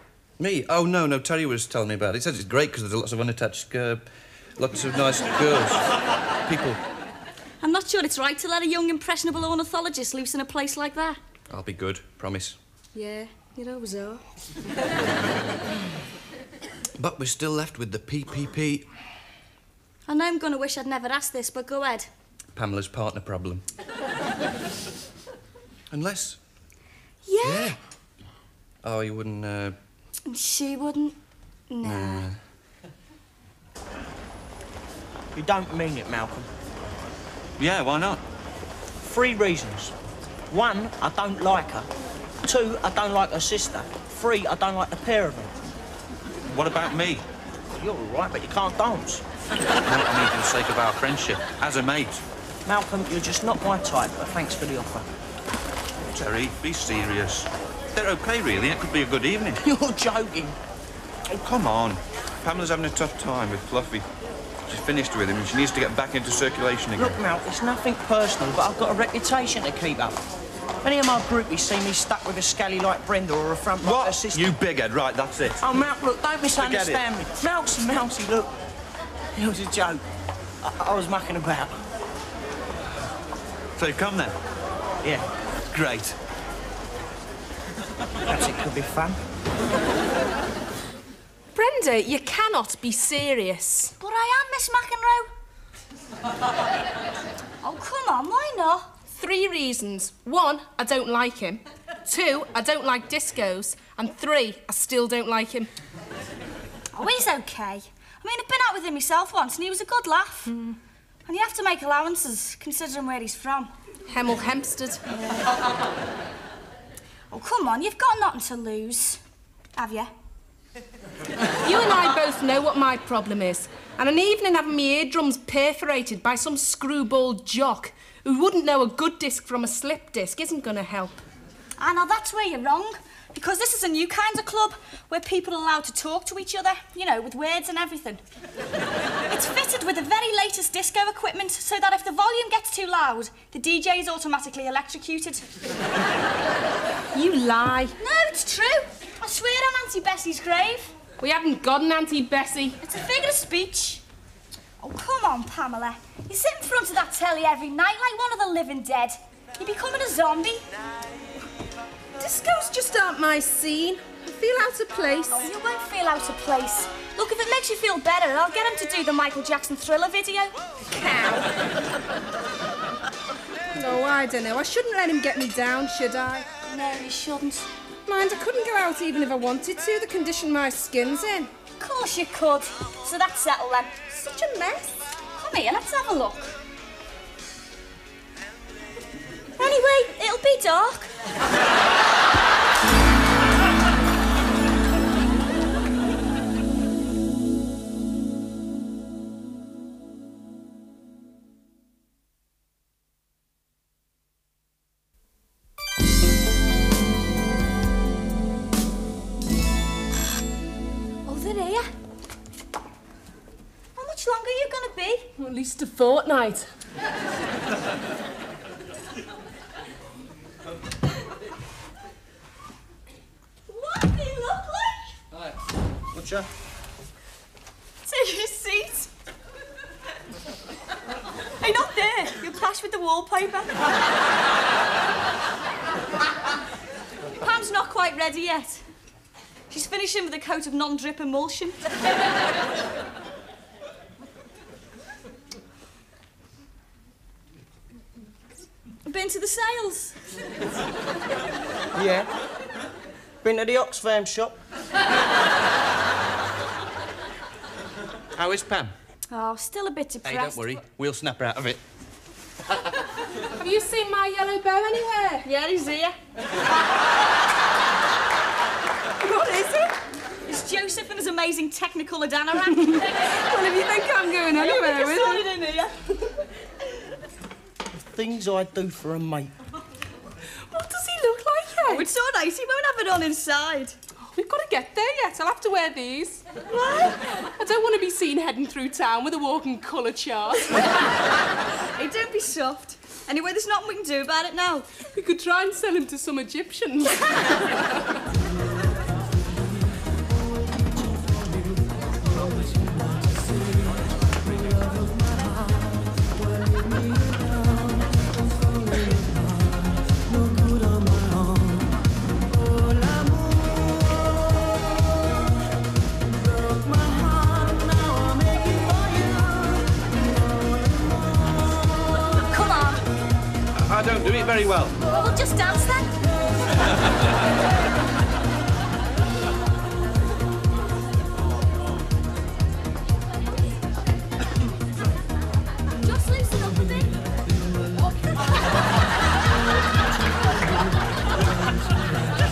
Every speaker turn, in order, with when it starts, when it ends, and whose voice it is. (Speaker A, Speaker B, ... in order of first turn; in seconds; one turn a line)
Speaker A: 0.4-5.9
Speaker A: 6.5-6.8
Speaker B: 7.6-11.2
Speaker A: 11.5-12.6
Speaker B: 12.9-14.2
Speaker A: 17.0-18.9
Speaker B: 20.1-22.1
Speaker A: 22.6-23.6
Speaker A: 25.9-26.4
Speaker B: 27.2-27.8
Speaker A: 27.4-27.8
Speaker A: 28.8-29.8
Speaker B: 30.3-31.2
Speaker B: 31.7-32.3
Speaker A: 31.8-32.4
Speaker C: 35.4-36.5
Speaker A: 37.6-38.2
Speaker C: 39.0-39.9
Speaker C: 40.5-41.9
Speaker C: 42.4-45.5
Speaker A: 46.5-47.2
Speaker C: 47.8-49.2
Speaker A: 49.9-52.2
Speaker C: 52.7-55.1
Speaker A: 56.1-59.6
Speaker C: 59.6-60.6
Speaker A: 61.3-64.0
Speaker A: 64.7-67.2
Speaker C: 67.0-70.2
Speaker C: 70.8-74.5
Speaker A: 73.8-75.6
Speaker C: 75.6-78.5
Speaker A: 76.6-77.0
Speaker C: 79.4-80.0
Speaker C: 80.6-81.8
Speaker A: 83.8-84.3
Speaker A: 85.7-86.2
Speaker C: 88.3-89.2
Speaker D: 91.5-93.9
Speaker B: 94.0-95.3
Speaker B: 97.6-98.9
Speaker D: 99.1-105.7
Speaker B: 106.9-110.5
Speaker D: 110.5-110.8
Speaker B: 111.3-113.7
Speaker D: 114.1-115.0
Speaker B: 115.1-115.5
Speaker B: 117.3-119.2
Speaker B: 119.8-120.1
Speaker D: 121.6-131.2
Speaker B: 131.8-138.2
Speaker B: 139.3-145.5
Speaker D: 147.1-148.0
Speaker B: 148.0-150.9
Speaker D: 151.2-152.8
Speaker B: 152.8-154.0
Speaker B: 154.8-160.7
Speaker D: 162.2-165.5
Speaker B: 165.4-170.6
Speaker D: 170.9-171.5
Speaker D: 173.8-176.5
Speaker B: 176.7-177.7
Speaker D: 178.1-181.5
Speaker B: 181.8-183.9
Speaker D: 184.1-184.9
Speaker B: 185.4-186.6
Speaker B: 189.6-191.1
Speaker B: 211.3-211.9
Speaker B: 214.0-215.3
Speaker D: 215.4-216.7
Speaker B: 223.7-225.2
Speaker C: 226.1-226.5
Speaker B: 228.1-229.1
Speaker B: 231.6-233.9
Speaker B: 237.4-238.8
Speaker B: 239.7-241.8
Speaker B: 249.1-250.2
Speaker C: 251.9-252.3
Speaker C: 253.4-254.6
Speaker A: 258.4-258.9
Speaker B: 259.3-260.8
Speaker A: 260.2-261.8
Speaker D: 263.6-265.5
Speaker B: 265.4-266.2
Speaker D: 269.2-269.9
Speaker B: 270.5-273.3
Speaker D: 273.4-275.5
Speaker B: 274.5-275.9
Speaker C: 278.1-279.5
Speaker D: 280.7-282.1
Speaker B: 281.9-284.0
Speaker D: 284.2-286.4
Speaker B: 286.7-287.2
Speaker D: 287.6-290.9
Speaker B: 291.9-294.9
Speaker D: 295.1-297.6
Speaker B: 322.3-323.0
Speaker A: 323.8-325.0
Speaker B: 325.1-326.2
Speaker B: 336.0-337.2